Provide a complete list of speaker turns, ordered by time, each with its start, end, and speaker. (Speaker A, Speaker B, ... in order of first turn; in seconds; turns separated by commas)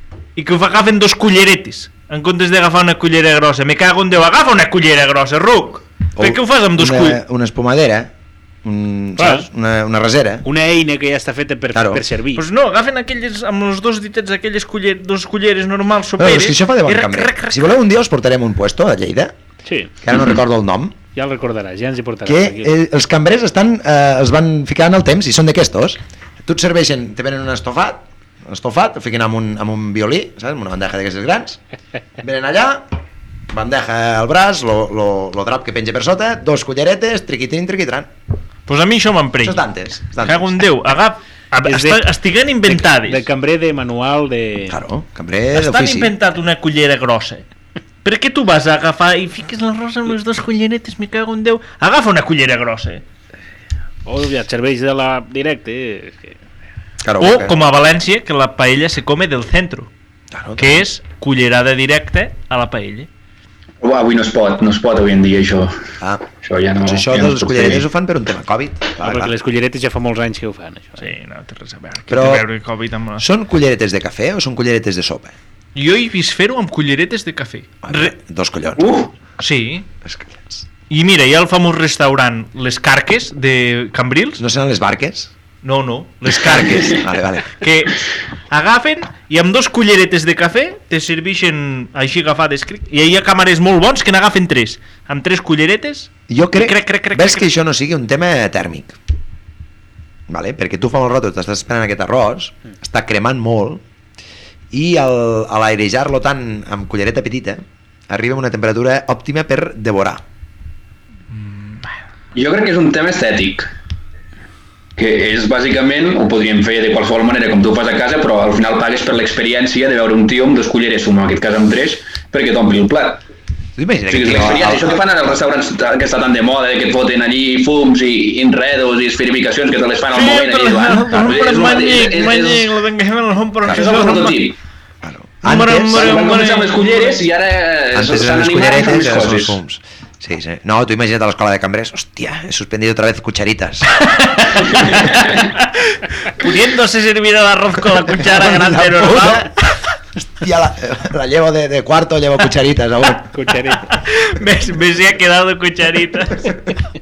Speaker A: 0.3-7.2, Speaker B: 6.2-8.1, Speaker B: 8.6-10.4, Speaker C: 9.2-9.5, Speaker C: 10.4-12.4, Speaker B: 11.7-12.0, Speaker A: 12.3-17.7, Speaker B: 16.2-19.3, Speaker C: 19.6-19.9, Speaker B: 20.0-20.9, Speaker C: 21.1-22.7, Speaker B: 22.2-31.6, Speaker B: 32.2-32.9, Speaker B: 33.5-38.1, Speaker A: 38.7-39.6, Speaker B: 39.4-40.6, Speaker A: 40.2-43.2, Speaker C: 41.6-42.1, Speaker C: 42.7-44.8, Speaker B: 44.7-46.1, Speaker A: 45.5-47.4, Speaker A: 48.0-53.0, Speaker C: 54.0-56.4, Speaker B: 57.0-57.6, Speaker A: 57.2-59.9, Speaker B: 60.3-60.8, Speaker A: 60.6-63.1, Speaker D: 63.8-65.7, Speaker D: 66.4-67.8, Speaker B: 66.8-69.3, Speaker C: 69.0-71.1, Speaker A: 71.0-73.2, Speaker B: 72.1-72.5, Speaker B: 73.2-75.3, Speaker A: 75.7-78.1, Speaker B: 77.8-79.1, Speaker D: 78.8-79.1, Speaker A: 79.4-79.8, Speaker B: 80.0-80.6, Speaker A: 80.9-84.4, Speaker B: 84.4-85.3, Speaker A: 85.6-97.5, Speaker B: 86.3-87.5, Speaker B: 96.3-99.0, Speaker B: 100.3-103.8, Speaker B: 104.7-110.2, Speaker A: 111.3-111.9, Speaker D: 112.3-113.7, Speaker D: 115.0-123.2, Speaker B: 123.8-125.3, Speaker D: 124.1-132.7, Speaker A: 130.1-134.4, Speaker D: 133.7-134.6, Speaker B: 135.0-136.2, Speaker A: 135.4-137.2, Speaker D: 135.9-139.6, Speaker B: 137.9-143.9, Speaker A: 144.0-149.5, Speaker B: 148.1-149.5, Speaker B: 150.2-153.4, Speaker C: 153.3-153.9, Speaker A: 153.9-156.6